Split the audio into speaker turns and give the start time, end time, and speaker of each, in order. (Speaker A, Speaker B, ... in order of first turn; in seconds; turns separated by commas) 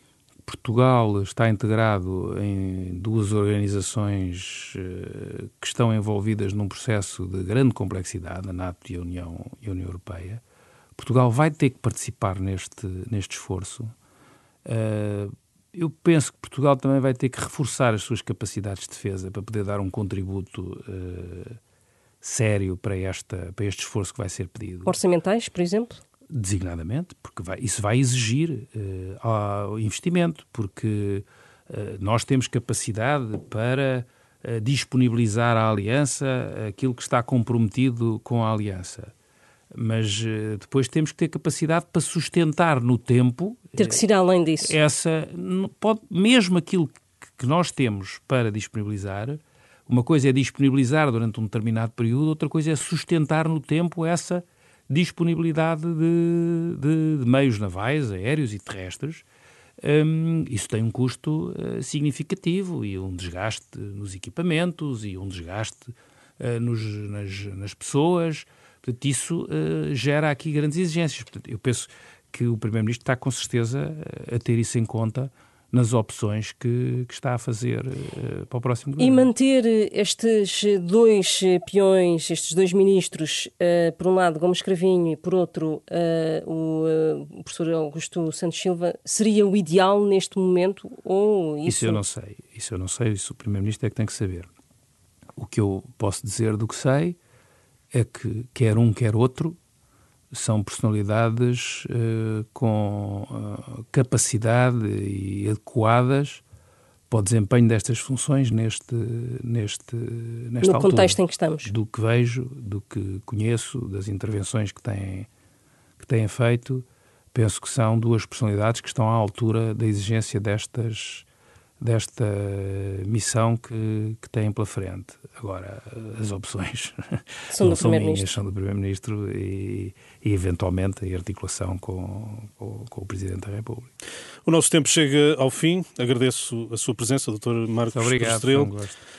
Speaker A: 0.5-10.4, Speaker A: 10.9-13.9, Speaker A: 14.6-21.6, Speaker A: 22.2-24.9, Speaker B: 24.9-26.0, Speaker A: 26.3-39.1, Speaker A: 39.7-44.0, Speaker B: 43.8-44.7, Speaker A: 44.6-59.2, Speaker A: 59.8-79.3, Speaker B: 79.0-92.0, Speaker A: 91.6-94.5, Speaker A: 95.3-97.2, Speaker A: 97.9-99.6, Speaker A: 100.3-106.4, Speaker A: 107.1-115.3, Speaker B: 110.6-111.7, Speaker A: 116.0-121.2, Speaker A: 121.8-133.9, Speaker B: 127.5-128.3, Speaker C: 134.4-138.7, Speaker A: 137.9-139.0